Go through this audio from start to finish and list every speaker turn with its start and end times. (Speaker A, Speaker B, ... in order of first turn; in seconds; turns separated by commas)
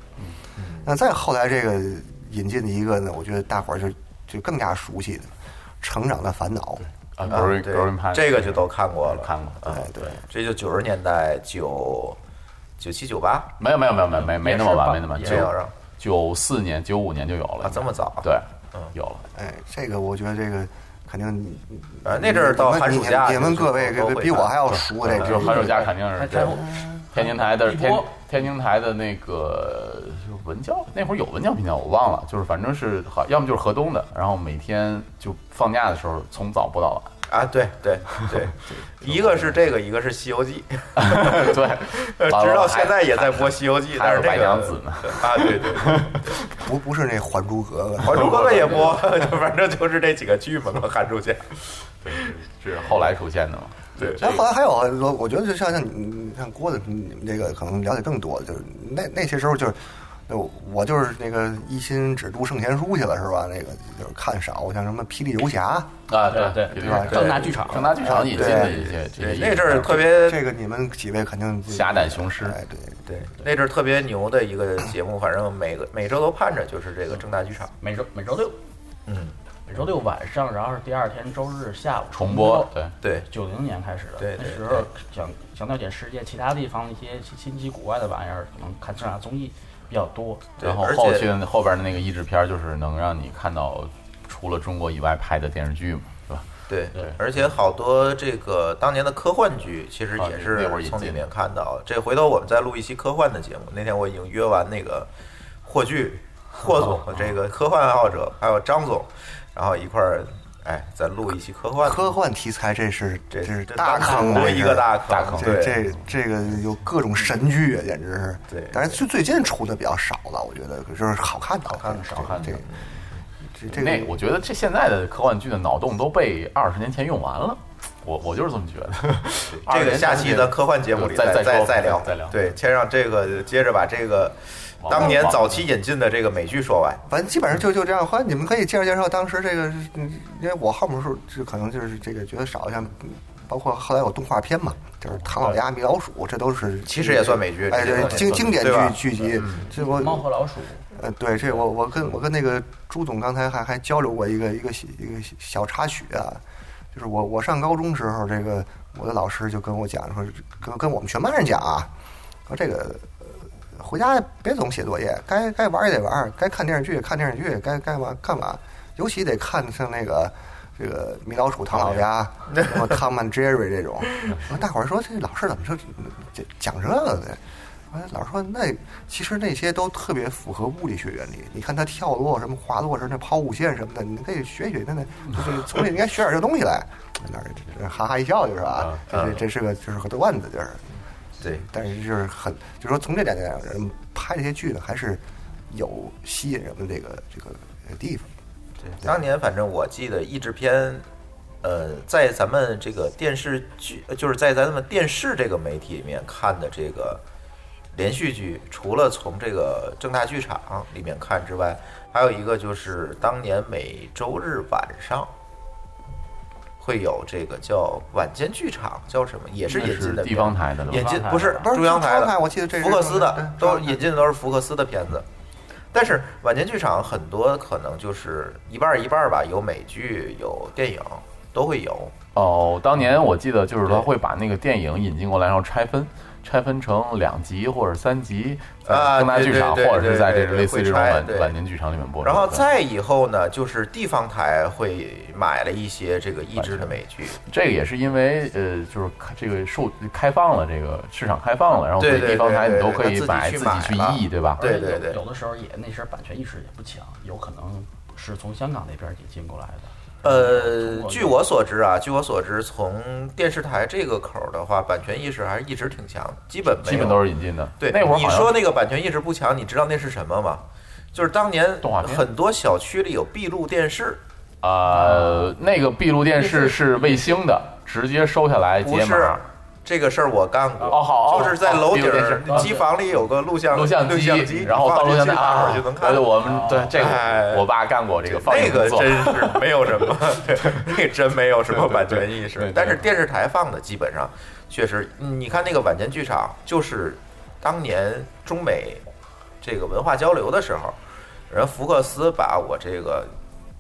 Speaker A: 0.6-0.9, Speaker B: 0.8-6.8, Speaker C: 7.2-10.1, Speaker A: 7.3-12.2, Speaker B: 9.7-10.2, Speaker A: 12.8-13.5, Speaker C: 13.6-19.2, Speaker D: 14.1-15.5, Speaker A: 15.2-15.7, Speaker A: 17.6-18.9, Speaker B: 19.4-25.9, Speaker A: 22.1-24.6, Speaker C: 24.7-37.1, Speaker A: 25.2-25.6, Speaker D: 26.1-28.1, Speaker A: 37.3-46.3, Speaker C: 39.1-39.5, Speaker C: 41.0-46.3, Speaker B: 46.5-48.9, Speaker A: 48.0-51.5, Speaker C: 48.2-49.0, Speaker C: 52.0-54.4, Speaker A: 54.0-54.2, Speaker B: 54.2-65.9, Speaker C: 66.1-70.1, Speaker D: 66.3-68.0, Speaker B: 66.7-69.0, Speaker A: 68.2-70.4, Speaker B: 69.7-73.0, Speaker C: 71.7-72.6, Speaker A: 73.1-77.7, Speaker D: 77.8-78.6, Speaker A: 79.1-79.3, Speaker D: 79.7-82.7, Speaker C: 82.1-82.9, Speaker D: 83.3-90.5, Speaker A: 84.2-84.8, Speaker A: 90.6-91.3, Speaker C: 90.6-97.2, Speaker A: 96.7-105.1, Speaker C: 100.2-101.3, Speaker A: 105.7-112.2, Speaker C: 106.8-107.3, Speaker B: 111.8-122.7, Speaker A: 113.3-115.8, Speaker C: 115.1-116.0, Speaker A: 118.5-119.0, Speaker D: 121.8-122.3, Speaker C: 122.1-122.6, Speaker A: 122.4-122.8, Speaker B: 123.5-124.2, Speaker C: 123.7-132.4, Speaker A: 129.5-137.0, Speaker C: 134.8-135.6, Speaker B: 137.1-150.2, Speaker A: 146.9-149.7, Speaker D: 149.7-150.8, Speaker B: 150.9-156.4, Speaker B: 156.9-161.9, Speaker B: 162.5-190.9, Speaker A: 172.5-172.8, Speaker C: 188.8-189.0, Speaker A: 189.1-189.4, Speaker B: 191.4-198.3, Speaker A: 198.8-201.1, Speaker A: 201.6-207.2, Speaker A: 207.9-215.3, Speaker A: 216.8-225.2, Speaker C: 219.7-221.3, Speaker D: 220.9-221.7, Speaker B: 221.6-224.1, Speaker A: 225.9-232.1, Speaker C: 232.3-242.7, Speaker A: 238.9-241.6, Speaker A: 242.2-247.4, Speaker C: 246.6-246.9, Speaker C: 247.5-254.6, Speaker A: 252.0-255.2, Speaker D: 254.6-261.4, Speaker A: 260.2-274.2, Speaker C: 266.8-268.6, Speaker C: 271.8-272.3, Speaker C: 274.6-279.4, Speaker D: 274.9-275.5, Speaker D: 276.4-277.3, Speaker A: 278.8-287.7, Speaker C: 280.9-282.8, Speaker D: 282.5-282.9, Speaker C: 283.7-290.1, Speaker D: 286.4-286.9, Speaker A: 288.2-299.0, Speaker C: 291.7-293.1, Speaker A: 299.6-301.0, Speaker A: 301.5-303.3